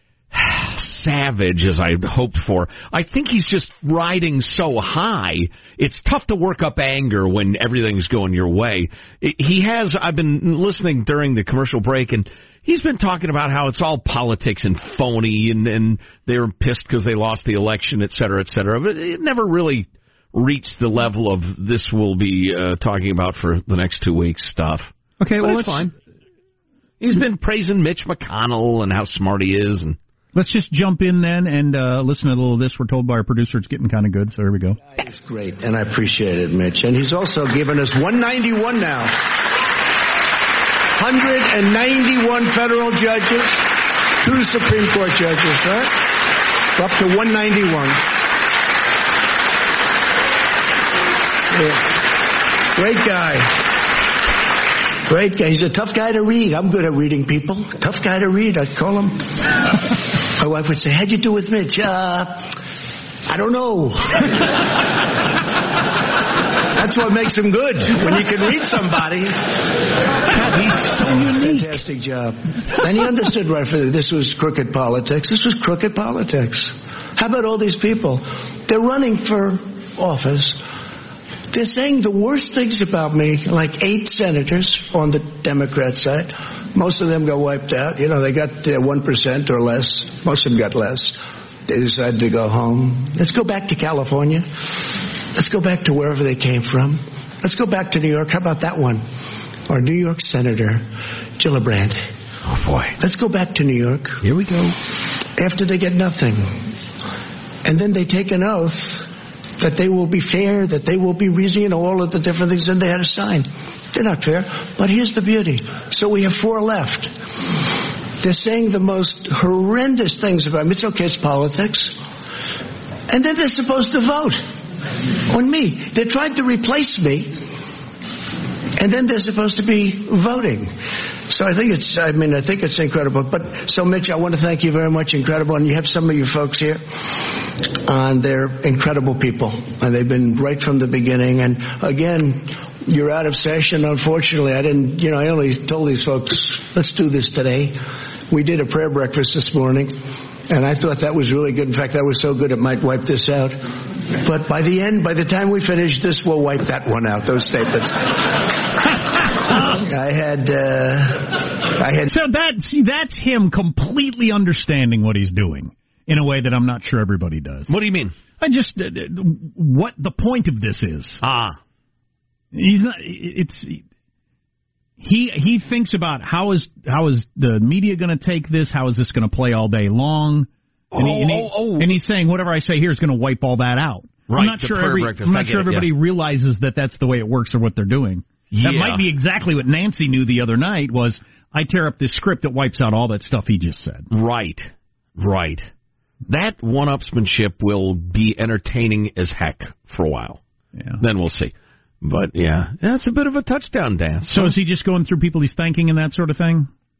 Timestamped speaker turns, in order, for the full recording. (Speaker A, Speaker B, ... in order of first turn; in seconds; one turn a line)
Speaker A: 0.3-25.9
Speaker B: 25.2-25.9
Speaker A: 27.0-30.0
Speaker B: 30.4-34.8
Speaker C: 35.0-39.3
Speaker C: 41.0-46.0
Speaker C: 46.8-48.0
Speaker C: 51.5-52.0
Speaker C: 52.7-53.7
Speaker C: 55.1-62.5
Speaker C: 63.3-64.6
Speaker C: 66.7-69.8
Speaker C: 70.4-80.6
Speaker B: 71.0-71.5
Speaker C: 81.5-94.5
Speaker C: 95.3-99.0
Speaker C: 99.7-100.9
Speaker C: 101.4-102.1
Speaker A: 102.5-103.0
Speaker C: 103.0-104.2
Speaker A: 104.2-104.8
Speaker C: 105.4-106.7
Speaker C: 107.6-109.1
Speaker C: 109.6-117.2
Speaker C: 118.2-122.0
Speaker C: 123.1-124.4
Speaker C: 125.3-127.4
Speaker C: 128.8-130.7
Speaker C: 131.3-150.0
Speaker C: 150.5-153.6
Speaker C: 154.2-158.6
Speaker C: 159.5-162.1
Speaker B: 162.1-167.8
Speaker A: 167.7-168.1
Speaker B: 168.4-171.2
Speaker A: 171.2-171.6
Speaker B: 172.5-173.8
Speaker B: 175.0-194.1
Speaker A: 180.9-181.9
Speaker A: 184.3-185.9
Speaker A: 188.5-189.1
Speaker A: 194.1-195.7
Speaker A: 196.3-200.4
Speaker B: 200.8-201.0
Speaker A: 201.0-204.6
Speaker B: 204.3-206.7